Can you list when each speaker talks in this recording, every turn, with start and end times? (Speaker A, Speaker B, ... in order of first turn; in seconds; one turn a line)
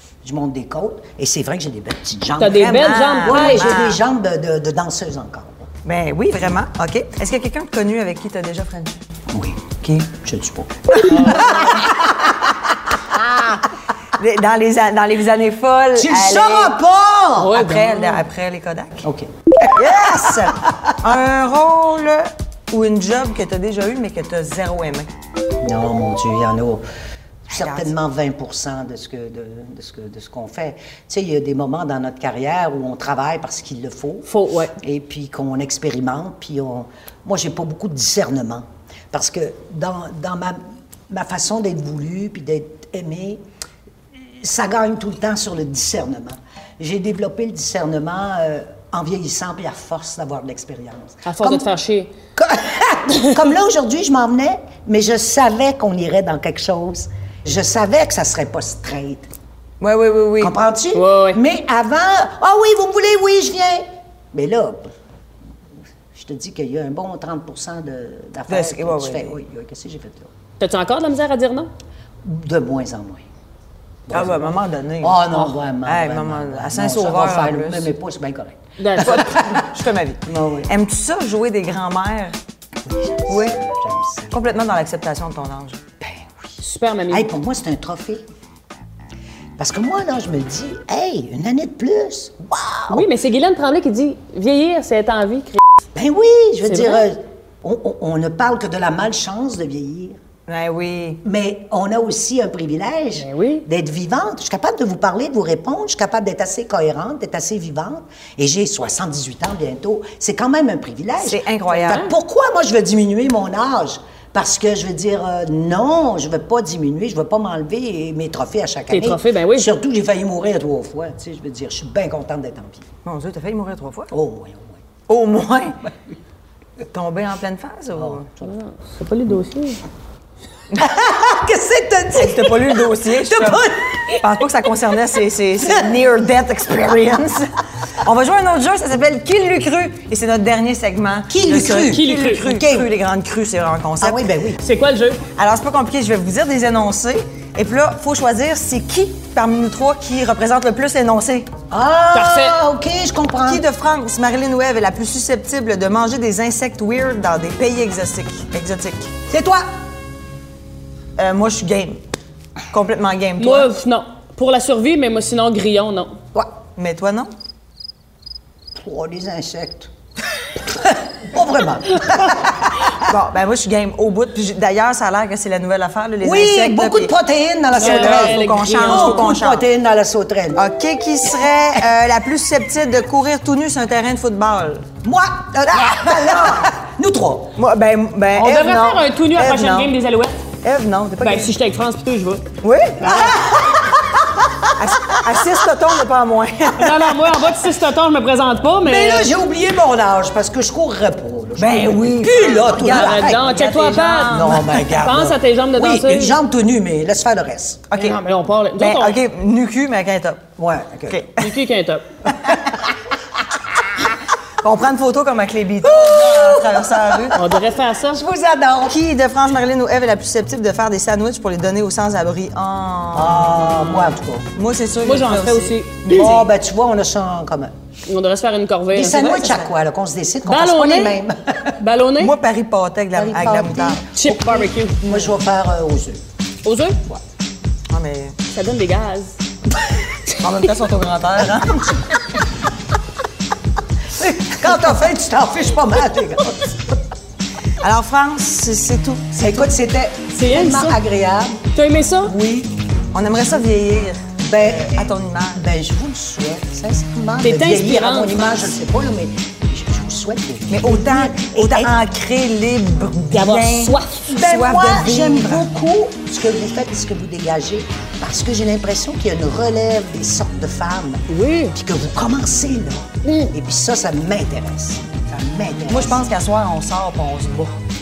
Speaker A: 0.2-5.7
Speaker B: 2.4-3.7
Speaker C: 2.5-4.0
Speaker C: 5.8-9.0
Speaker A: 9.3-12.5
Speaker C: 9.8-10.1
Speaker B: 11.0-11.9
Speaker C: 14.2-16.8
Speaker A: 15.9-17.6
Speaker B: 17.4-18.2
Speaker C: 17.5-19.1
Speaker A: 19.0-20.9
Speaker C: 19.6-25.1
Speaker A: 25.6-26.8
Speaker A: 27.5-34.3
Speaker C: 27.6-27.9
Speaker B: 34.3-34.7
Speaker A: 34.8-43.4
Speaker A: 44.2-51.7
Speaker B: 51.2-52.1
Speaker A: 52.4-59.3
Speaker C: 59.8-60.5
Speaker A: 60.4-64.9
Speaker B: 60.9-61.4
Speaker A: 66.1-70.3
Speaker C: 68.5-69.4
Speaker B: 70.6-71.7
Speaker A: 72.2-73.2
Speaker A: 74.1-79.7
Speaker C: 74.1-77.9
Speaker B: 78.8-79.2
Speaker C: 79.0-82.4
Speaker A: 80.3-80.7
Speaker A: 82.9-84.5
Speaker C: 83.3-83.6
Speaker C: 84.3-85.8
Speaker A: 86.0-88.2
Speaker B: 86.6-87.3
Speaker A: 89.6-93.1
Speaker B: 92.9-95.6
Speaker A: 96.0-100.2
Speaker B: 96.7-97.1
Speaker C: 100.5-101.2
Speaker A: 101.2-122.9
Speaker B: 103.2-103.7
Speaker C: 111.2-112.1
Speaker B: 118.9-119.7
Speaker C: 123.0-124.1
Speaker A: 124.1-124.8
Speaker C: 125.1-125.8
Speaker C: 126.9-128.3
Speaker A: 128.0-128.2
Speaker B: 128.4-129.8
Speaker A: 130.8-134.5
Speaker C: 132.2-133.7
Speaker C: 134.2-144.2
Speaker A: 141.3-142.9
Speaker B: 141.7-142.5
Speaker A: 144.0-144.6
Speaker B: 144.6-145.2
Speaker C: 145.3-151.5
Speaker A: 151.7-153.7
Speaker B: 152.1-152.6
Speaker C: 153.5-159.1
Speaker A: 159.3-159.7
Speaker C: 161.2-162.0
Speaker C: 162.7-163.7
Speaker B: 163.4-166.2
Speaker C: 166.8-167.3
Speaker A: 168.8-169.9
Speaker A: 170.8-173.0
Speaker C: 173.1-177.1
Speaker A: 176.2-180.6
Speaker B: 177.8-179.3
Speaker C: 177.8-179.7
Speaker C: 180.6-184.9
Speaker A: 185.0-187.6
Speaker C: 185.7-186.7
Speaker C: 187.6-189.9
Speaker B: 188.3-190.4
Speaker C: 190.6-191.5
Speaker B: 191.2-192.5
Speaker C: 192.6-193.3
Speaker B: 193.0-193.4
Speaker A: 193.0-194.5
Speaker C: 194.8-197.4
Speaker B: 196.8-199.3
Speaker A: 198.8-203.5
Speaker C: 201.6-205.0
Speaker B: 202.8-206.3
Speaker A: 204.3-207.9
Speaker C: 207.9-208.2
Speaker B: 208.0-209.2
Speaker C: 208.8-210.4
Speaker A: 210.6-211.2
Speaker C: 211.1-211.6
Speaker B: 211.4-212.1
Speaker C: 214.6-217.5
Speaker A: 215.8-219.0
Speaker B: 217.3-218.2
Speaker C: 218.9-226.5
Speaker A: 223.1-224.5
Speaker B: 225.0-226.3
Speaker A: 226.1-227.7
Speaker B: 228.1-229.3
Speaker A: 228.9-231.8
Speaker C: 229.0-229.7
Speaker B: 230.5-231.2
Speaker B: 231.8-232.4
Speaker C: 232.2-234.0
Speaker A: 233.1-236.2
Speaker B: 234.1-235.3
Speaker B: 236.6-237.0
Speaker C: 237.9-238.4
Speaker B: 238.5-239.4
Speaker C: 240.4-242.1
Speaker A: 244.2-246.8
Speaker C: 247.8-249.7
Speaker A: 249.3-251.6
Speaker B: 250.3-251.0
Speaker B: 251.7-252.4
Speaker A: 252.2-252.8
Speaker C: 253.1-255.7
Speaker A: 254.4-261.9
Speaker B: 257.4-258.7
Speaker C: 260.7-265.7
Speaker B: 263.3-264.3
Speaker A: 264.3-276.2
Speaker B: 271.3-271.8
Speaker B: 273.2-273.5
Speaker C: 275.9-277.8